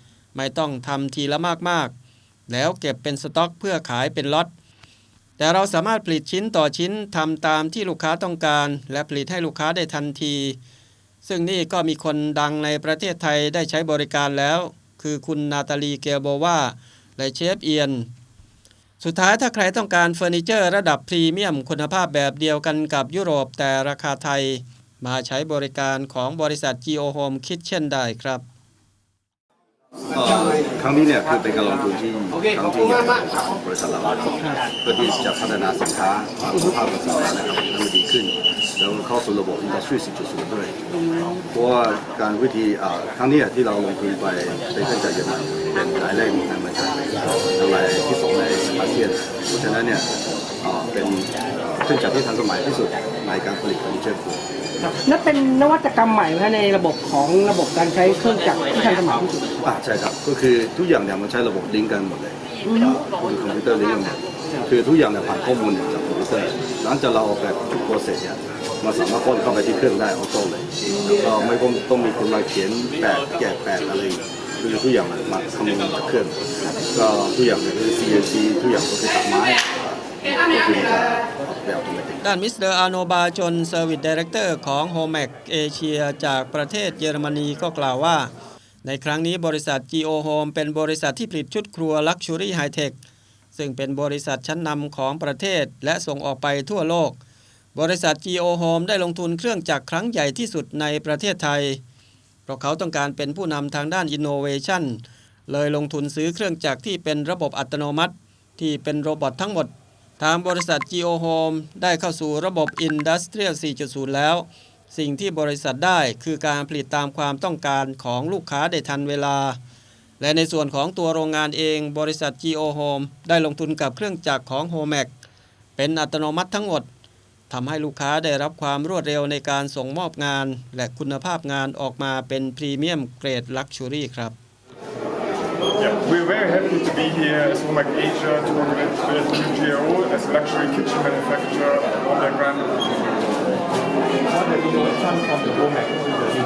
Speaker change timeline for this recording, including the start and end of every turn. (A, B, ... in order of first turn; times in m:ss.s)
0:00.3-0:01.9 A
0:02.5-0:04.5 A
0:05.4-0:10.6 A
0:11.2-0:18.1 A
0:19.0-0:28.4 A
0:30.1-0:40.9 B
0:41.1-0:41.4 C
0:41.5-0:50.1 B
0:50.6-0:54.4 B
0:55.0-0:59.5 C
0:59.6-1:02.4 B
1:02.6-1:03.0 C
1:03.0-1:22.2 B
1:22.2-1:28.3 A
1:28.8-1:33.0 A
1:33.5-1:37.2 A
1:37.7-1:41.8 A
1:42.5-1:59.6 A
2:00.2-2:05.1 A
2:05.8-2:06.9 A
2:07.5-2:14.4 A
2:15.8-2:22.8 D
2:24.6-2:25.9 C